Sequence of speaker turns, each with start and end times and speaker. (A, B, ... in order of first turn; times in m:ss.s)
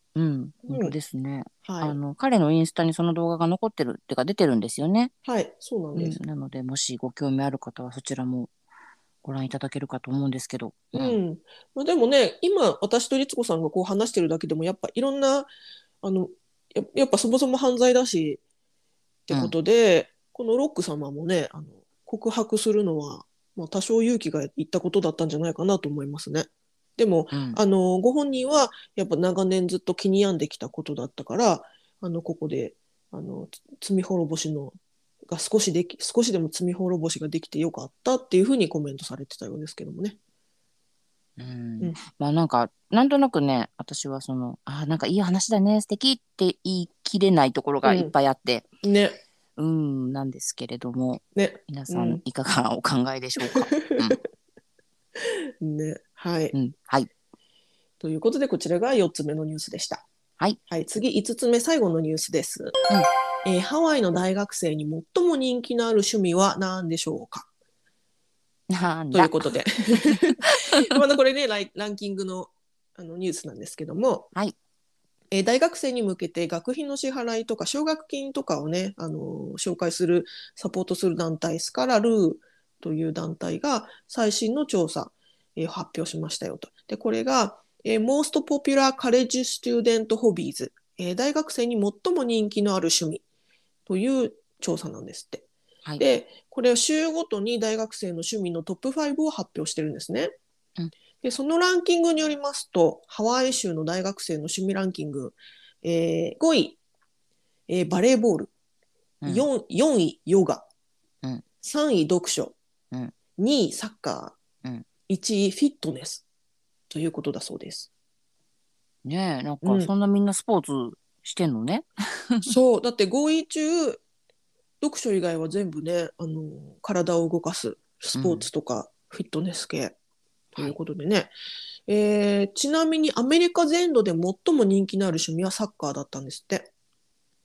0:00.1-0:05.1 A
0:00.6-0:00.9 B
0:01.6-0:02.0 B
0:05.2-0:06.2 B
0:05.9-0:08.5 A
0:09.2-0:11.2 A
0:10.9-0:15.5 B
0:16.0-0:18.4 B
0:19.3-0:34.7 B
0:27.3-0:27.6 A
0:35.3-0:40.2 B
0:41.4-0:48.6 A
0:47.8-0:48.1 B
0:48.8-0:49.2 B
0:49.6-0:54.2 A
0:51.3-0:52.2 B
0:53.4-0:54.2 B
0:55.2-0:56.5 B
0:56.5-0:57.1 A
0:58.0-1:00.0 B
1:00.7-1:02.8 B
1:03.4-1:07.5 B
1:08.7-1:09.5 A
1:09.1-1:14.3 B
1:10.1-1:10.8 A
1:15.3-1:33.2 B
1:33.8-1:35.4 B
1:36.0-1:40.3 B
1:41.2-1:46.8 B
1:47.7-1:48.5 B
1:49.2-1:49.5 A
1:49.2-1:50.7 B
1:51.6-1:52.6 B
1:53.4-1:54.4 B
1:55.1-1:56.2 B
1:56.9-1:57.9 B
1:59.0-2:02.5 A
1:59.6-1:59.9 B
2:02.4-2:04.0 B
2:04.8-2:09.9 B
2:08.2-2:08.5 A
2:10.6-2:11.3 B
2:11.9-2:16.7 B